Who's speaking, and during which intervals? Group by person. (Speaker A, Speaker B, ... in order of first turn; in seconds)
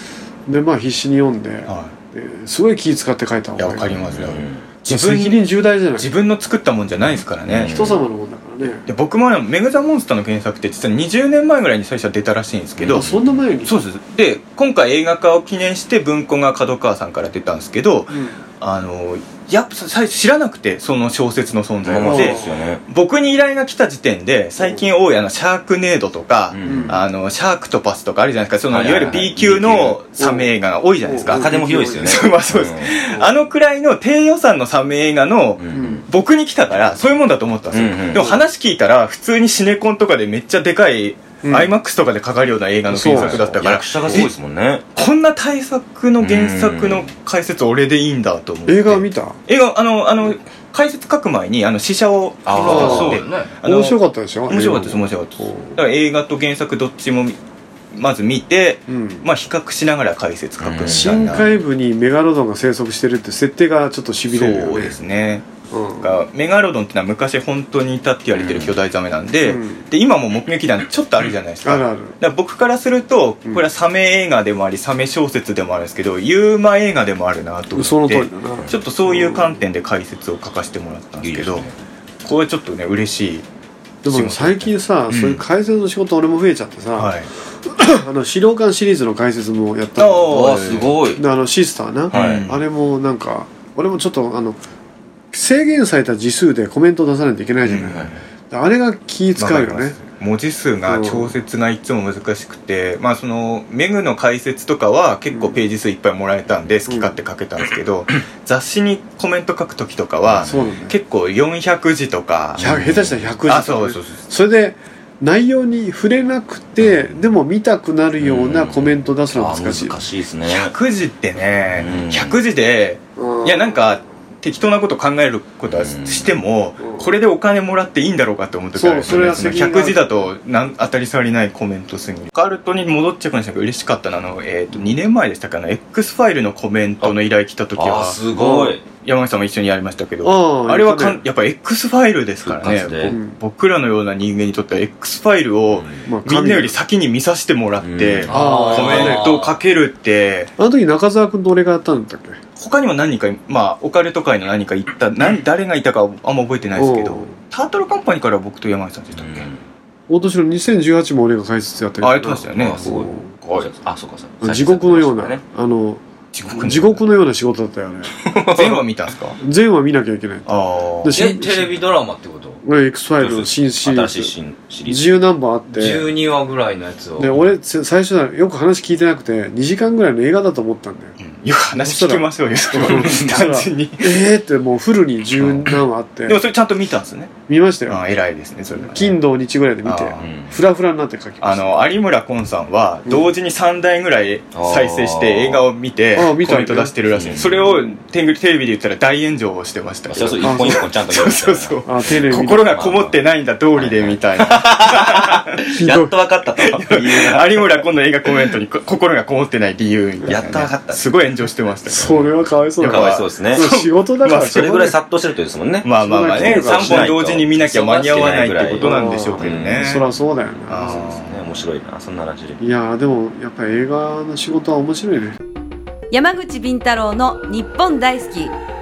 Speaker A: 0.5-4.2, 4.9-6.1, 7.7-8.9, 12.9-13.7, 18.1-18.4, 22.0-22.5, 24.6-24.9, 26.6-27.0, 30.2-30.5, 31.1-32.3, 35.7-36.0, 41.4-41.7, 42.9-44.3, 48.7-49.4, 52.6-55.8, 58.9-59.3, 60.9-65.0, 65.7-66.2, 69.5-69.9, 71.6-72.2, 77.7-79.5, 84.0-90.6, 91.2-94.6, 95.3-100.1, 100.9-101.3, 105.3-105.6, 106.9-107.1, 110.4-111.0, 112.6-120.0, 123.2-123.8, 128.7-130.2, 138.4-138.8, 140.2-141.2, 143.1-143.4, 146.1-146.8, 148.3-149.4, 150.6-152.4, 156.8-157.4, 160.1-163.6, 164.4-168.1, 169.4-170.5, 171.0-171.7, 172.6-174.3, 174.9-176.1, 177.2-181.2, 181.8-186.4, 187.5-188.0, 188.8-191.8, 196.1-196.9, 200.4-200.8, 201.8-202.8, 205.8-206.2, 211.9-214.9, 216.0-217.2, 218.7-221.1, 222.6-225.4
Speaker B: 1.7-1.9, 3.6-5.4, 6.0-7.9, 8.9-13.1, 13.6-44.3, 45.0-57.4, 57.9-61.5, 64.3-65.5, 66.0-81.7, 82.2-83.5, 84.0-85.4, 87.0-87.3, 90.0-90.9, 92.1-92.6, 97.7-98.2, 99.4-112.8, 113.5-114.2, 120.5-138.2, 138.9-150.5, 152.6-159.5, 162.0-163.1, 166.3-167.0, 168.6-169.4, 170.5-171.2, 181.2-184.2, 185.4-185.7, 186.3-187.3, 187.9-189.2, 189.8-190.3, 191.4-205.9, 206.6-214.9, 215.8-220.1, 220.7-221.5
Speaker C: 4.1-4.7, 7.5-8.0, 12.8-13.2, 21.9-22.8, 26.5-27.0, 28.7-30.0, 31.3-33.0, 35.6-36.0, 37.7-38.3, 43.1-44.9, 46.2-47.1, 52.5-53.2, 60.6-61.5, 68.3-68.8, 81.2-81.8, 90.3-91.2, 92.1-92.5, 97.8-98.2, 112.6-113.3, 118.2-120.7, 121.8-122.4, 125.7-126.3, 137.8-138.9, 142.4-143.2, 145.7-146.0, 147.8-148.3, 159.2-159.6, 162.6-165.4, 168.3-168.8, 173.2-175.2, 190.2-190.5, 194.6-195.7, 197.2-197.7, 200.1-201.8, 202.7-203.2, 203.8-207.8, 210.3-211.1, 212.8-213.7, 214.4-219.9, 220.8-222.6
Speaker D: 52.6-53.5, 148.3-149.6, 171.1-172.6, 175.7-177.4, 217.6-218.2
Speaker E: 226.1-228.6